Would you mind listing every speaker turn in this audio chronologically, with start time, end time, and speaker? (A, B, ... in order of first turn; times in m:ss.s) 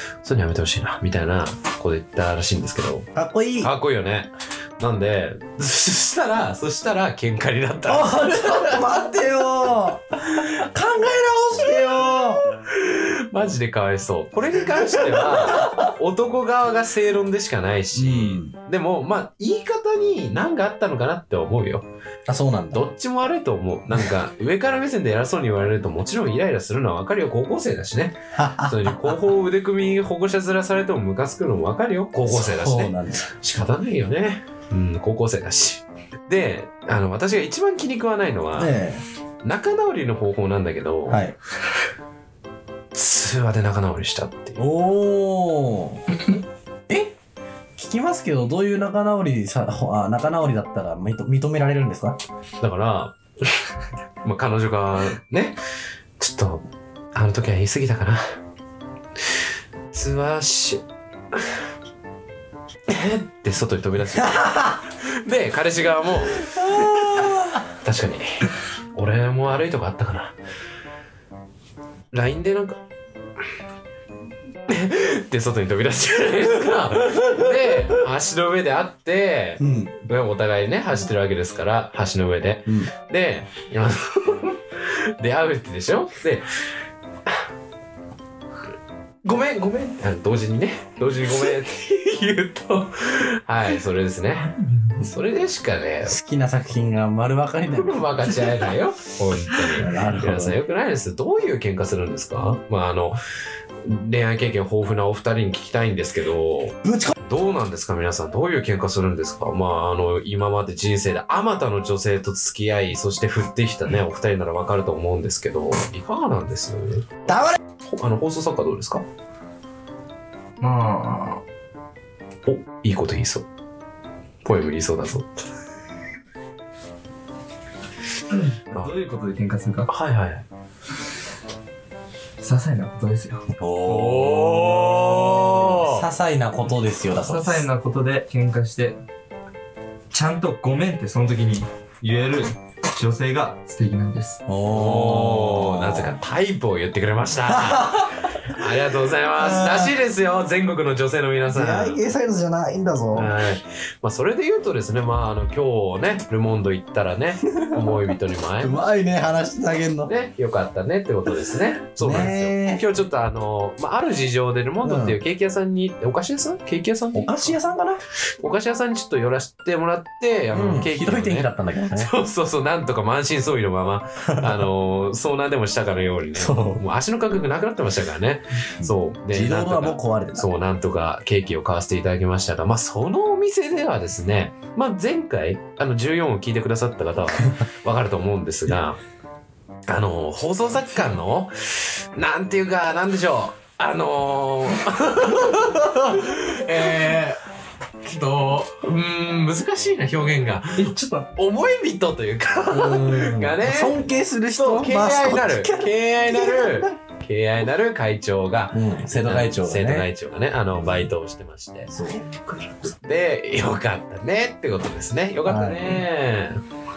0:00.2-0:03.1 A
0:03.1-0:03.7 B
0:03.6-0:08.8 A
0:07.8-0:12.4 B
0:12.6-0:21.8 A
0:14.7-0:15.9 B
0:17.9-0:18.5 B
0:22.3-0:22.8 B
0:22.7-0:38.7 A
0:28.3-0:29.2 B
0:32.2-0:33.3 B
0:38.6-0:39.0 B
0:39.4-0:41.2 A
0:41.1-0:41.3 B
0:42.9-0:44.6 A
0:44.6-0:46.0 B
0:46.9-0:47.1 B
0:47.8-0:52.2 B
0:52.6-0:53.6 A
0:54.2-0:55.6 A
0:56.2-0:58.3 A
0:59.9-1:00.8 A
1:02.9-1:04.5 A
1:04.1-1:04.8 B
1:05.0-1:07.3 A
1:06.3-1:07.6 B
1:07.8-1:10.3 A
1:12.1-1:12.8 A
1:14.7-1:24.6 A
1:19.6-1:19.9 B
1:22.6-1:22.9 B
1:25.2-1:26.5 A
1:29.2-1:36.1 A
1:36.0-1:38.5 B
1:37.7-1:43.2 A
1:39.7-1:40.6 B
1:43.8-1:59.0 A
1:46.8-1:47.1 B
1:57.3-1:57.6 B
2:00.6-2:01.4 C
2:02.4-2:03.4 A
2:04.4-2:05.4 A
2:08.3-2:09.9 C
2:09.9-2:10.4 A
2:12.4-2:13.5 C
2:13.6-2:17.6 B
2:13.8-2:16.0 A
2:17.1-2:19.0 C
2:20.1-2:24.4 C
2:24.4-2:26.1 B
2:24.7-2:32.0 A
2:27.4-2:28.5 B
2:29.4-2:30.0 B
2:31.5-2:33.3 B
2:33.1-2:38.8 A
2:37.5-2:38.0 B
2:38.6-2:40.1 B
2:40.0-2:47.6 A
2:42.0-2:42.8 B
2:44.8-2:45.2 B
2:47.1-2:48.0 B
2:48.4-3:09.0 A
2:50.5-2:52.1 B
2:54.2-2:54.6 B
2:56.3-2:56.8 B
2:58.8-3:00.5 B
3:09.9-3:17.4 A
3:18.0-3:24.0 A
3:22.7-3:26.9 B
3:24.5-3:31.9 A
3:28.7-3:30.1 B
3:30.8-3:31.0 B
3:31.9-3:32.2 B
3:33.0-3:36.6 A
3:35.4-3:36.0 B